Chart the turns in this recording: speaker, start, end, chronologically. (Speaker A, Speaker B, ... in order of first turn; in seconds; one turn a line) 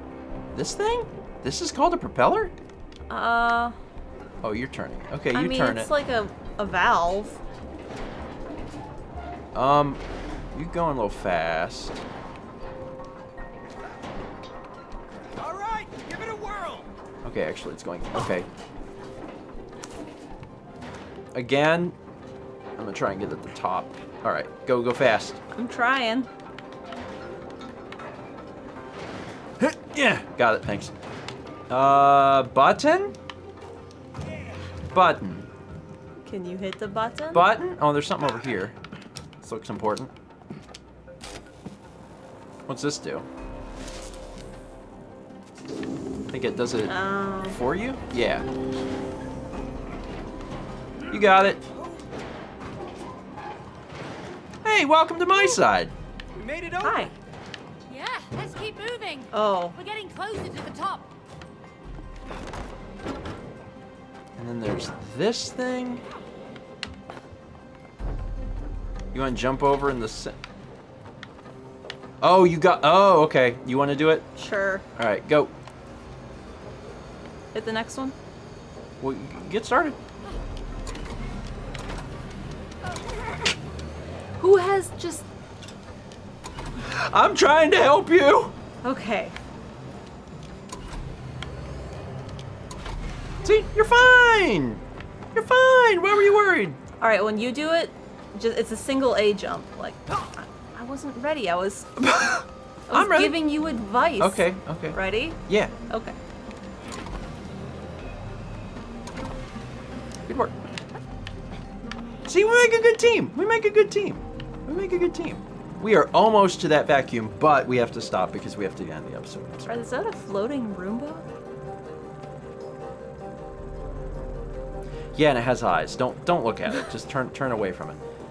Speaker A: 0.5-2.5
Speaker B: 3.1-3.8
Speaker A: 4.4-5.9
Speaker B: 5.3-7.4
Speaker A: 9.5-10.0
Speaker A: 10.5-12.0
Speaker C: 15.4-16.9
Speaker A: 17.2-18.5
Speaker A: 21.3-22.0
Speaker A: 22.8-25.4
Speaker B: 25.6-26.3
Speaker A: 29.6-30.9
Speaker A: 31.7-33.2
Speaker A: 34.9-35.5
Speaker B: 36.2-37.5
Speaker A: 37.3-38.8
Speaker A: 39.4-40.1
Speaker A: 42.7-43.3
Speaker A: 46.3-48.5
Speaker B: 46.9-47.6
Speaker A: 51.1-51.6
Speaker A: 54.6-55.9
Speaker C: 56.3-57.1
Speaker B: 56.8-57.1
Speaker D: 57.9-61.1
Speaker B: 59.3-59.8
Speaker A: 64.4-66.0
Speaker A: 69.1-70.4
Speaker A: 72.2-74.3
Speaker B: 74.4-74.8
Speaker A: 75.0-75.5
Speaker B: 77.5-78.2
Speaker A: 79.0-80.0
Speaker B: 84.4-85.3
Speaker A: 86.8-88.5
Speaker B: 88.8-89.3
Speaker A: 93.4-94.8
Speaker A: 95.3-96.8
Speaker B: 97.0-101.9
Speaker A: 102.0-103.4
Speaker B: 102.9-106.2
Speaker A: 104.2-105.7
Speaker A: 110.3-110.5
Speaker A: 112.3-119.8
Speaker B: 119.7-121.3
Speaker A: 125.2-128.0